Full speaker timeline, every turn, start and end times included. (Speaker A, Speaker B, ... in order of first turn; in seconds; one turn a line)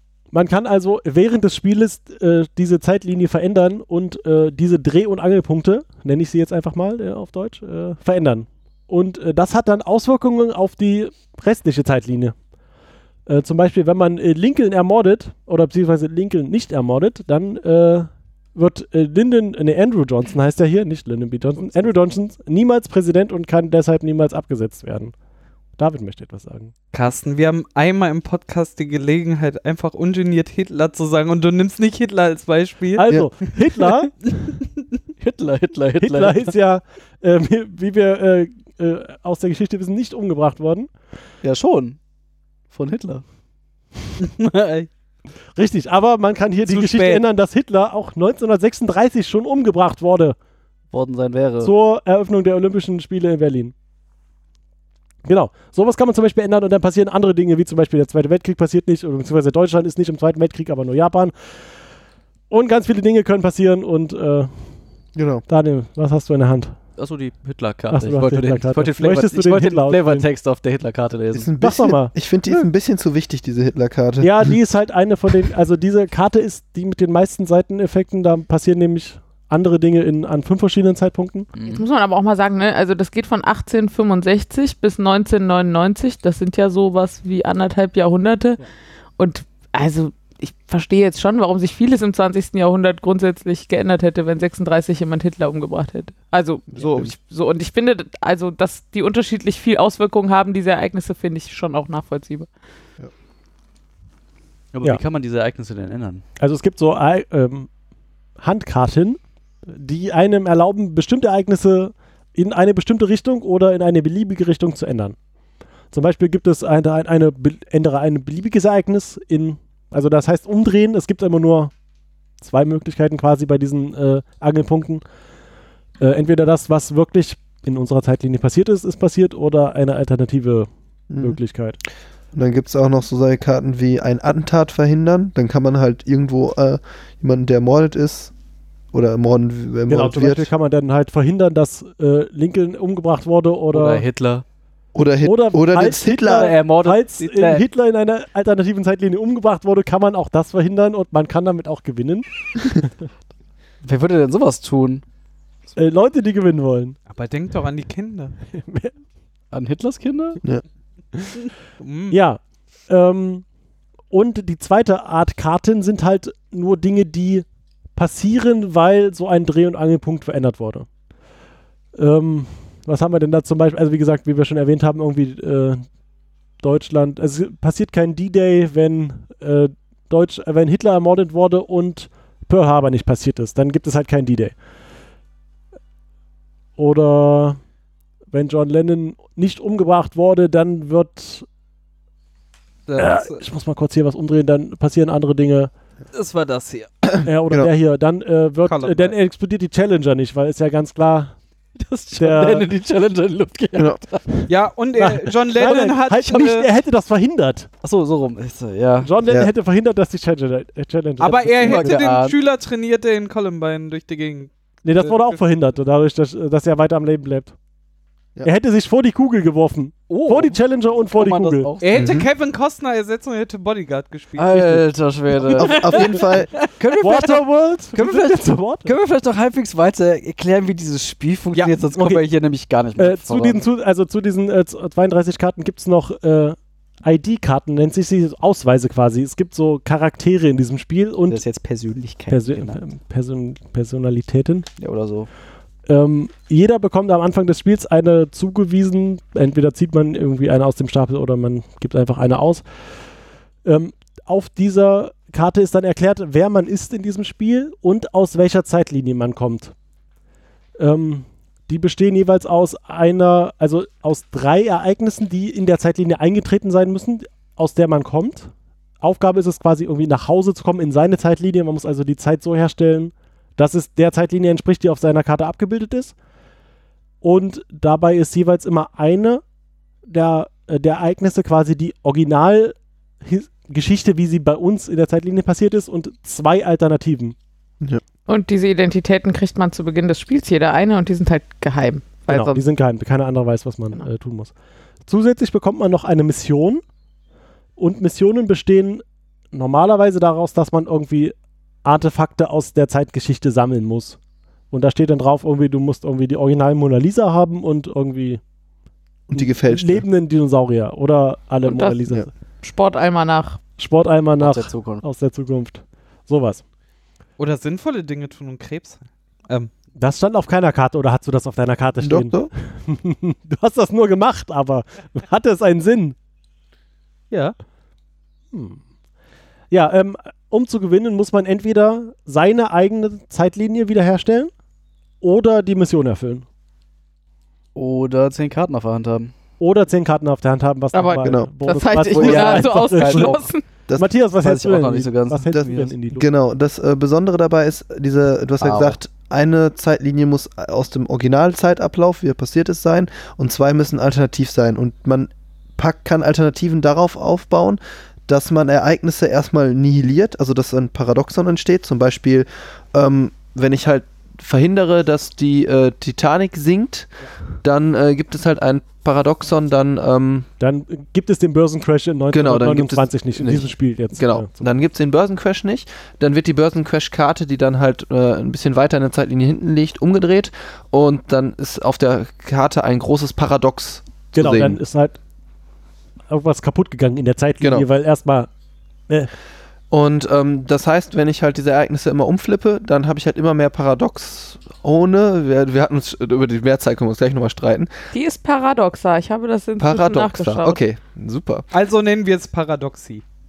Speaker A: 0.3-12.3
Speaker A: 13.2-25.1
Speaker A: 25.8-26.7
Speaker B: 26.9-33.1
Speaker A: 32.9-34.1
Speaker C: 35.2-36.5
Speaker A: 36.0-40.9
Speaker C: 41.4-42.0
Speaker C: 42.7-43.2
Speaker B: 44.2-44.9
Speaker A: 45.5-50.4
Speaker B: 46.7-47.2
Speaker C: 50.9-51.7
Speaker A: 51.6-53.7
Speaker A: 55.2-61.3
Speaker A: 62.5-64.5
Speaker D: 65.1-65.4
Speaker A: 65.5-66.8
Speaker C: 67.0-71.5
Speaker A: 67.9-70.2
Speaker D: 71.3-74.5
Speaker A: 71.6-72.1
Speaker A: 74.2-81.5
Speaker C: 81.5-81.8
Speaker E: 81.6-88.6
Speaker E: 89.2-102.5
Speaker D: 96.7-97.1
Speaker C: 104.7-106.2
Speaker A: 106.4-107.7
Speaker A: 108.4-115.2
Speaker A: 115.9-121.7
Speaker A: 122.4-125.0
Speaker A: 126.0-131.8
Speaker D: 131.1-131.4
Speaker D: 132.3-138.3
Speaker D: 138.9-140.5
Speaker A: 139.9-144.1
Speaker C: 143.7-144.4
Speaker D: 144.9-146.5
Speaker A: 145.2-152.9
Speaker C: 146.2-147.6
Speaker C: 153.8-155.0
Speaker A: 155.8-157.0
Speaker B: 157.1-158.3
Speaker A: 158.5-158.9
Speaker C: 159.5-160.4
Speaker B: 161.8-162.2
Speaker A: 162.1-163.4
Speaker A: 164.1-170.9
Speaker A: 171.9-175.8
Speaker A: 176.6-184.5
Speaker A: 186.8-187.6
Speaker A: 188.3-191.4
Speaker B: 192.9-193.4
Speaker A: 192.9-195.7
Speaker B: 196.1-196.9
Speaker D: 197.0-197.7
Speaker A: 197.2-201.3
Speaker B: 198.7-199.1
Speaker C: 201.8-204.4
Speaker A: 202.2-202.7
Speaker D: 203.7-204.0
Speaker B: 204.5-206.7
Speaker A: 205.0-207.7
Speaker C: 207.8-209.1
Speaker A: 209.0-212.1
Speaker B: 211.2-215.4
Speaker C: 211.6-212.3
Speaker A: 214.8-217.5
Speaker A: 218.4-221.7
Speaker C: 220.1-222.2
Speaker B: 221.8-224.8
Speaker D: 221.9-222.3
Speaker C: 224.3-227.4
Speaker D: 225.5-226.5
Speaker B: 225.7-226.2
Speaker A: 227.0-228.9
Speaker C: 227.9-233.6
Speaker B: 231.5-231.8
Speaker A: 231.9-232.2
Speaker A: 233.0-241.4
Speaker C: 241.3-242.8
Speaker A: 242.3-244.7
Speaker C: 244.8-245.3
Speaker A: 245.9-252.6
Speaker A: 253.6-259.7
Speaker A: 260.8-276.1
Speaker A: 277.2-279.4
Speaker A: 280.1-287.4
Speaker E: 288.3-292.6
Speaker A: 292.3-294.5
Speaker A: 295.1-296.8
Speaker A: 297.8-304.2
Speaker A: 304.7-308.4
Speaker D: 309.3-310.0
Speaker A: 309.3-312.3
Speaker E: 311.6-312.1
Speaker E: 312.6-313.6
Speaker A: 313.8-316.6
Speaker C: 314.4-315.0
Speaker B: 317.4-319.7
Speaker A: 320.0-326.1
Speaker D: 322.0-322.5
Speaker A: 328.5-328.8
Speaker A: 329.7-334.5
Speaker A: 335.2-336.4
Speaker C: 337.7-339.3
Speaker A: 339.6-346.3
Speaker E: 340.9-343.6
Speaker D: 341.2-341.5
Speaker C: 342.1-343.4
Speaker C: 344.4-345.9
Speaker D: 345.5-367.1
Speaker C: 348.6-349.0
Speaker D: 367.6-370.5
Speaker A: 370.6-374.6
Speaker D: 372.3-384.8
Speaker A: 384.3-385.2
Speaker A: 386.3-388.5
Speaker D: 387.6-387.9
Speaker D: 389.9-397.9
Speaker E: 398.1-400.8
Speaker D: 399.8-401.7
Speaker B: 401.7-403.2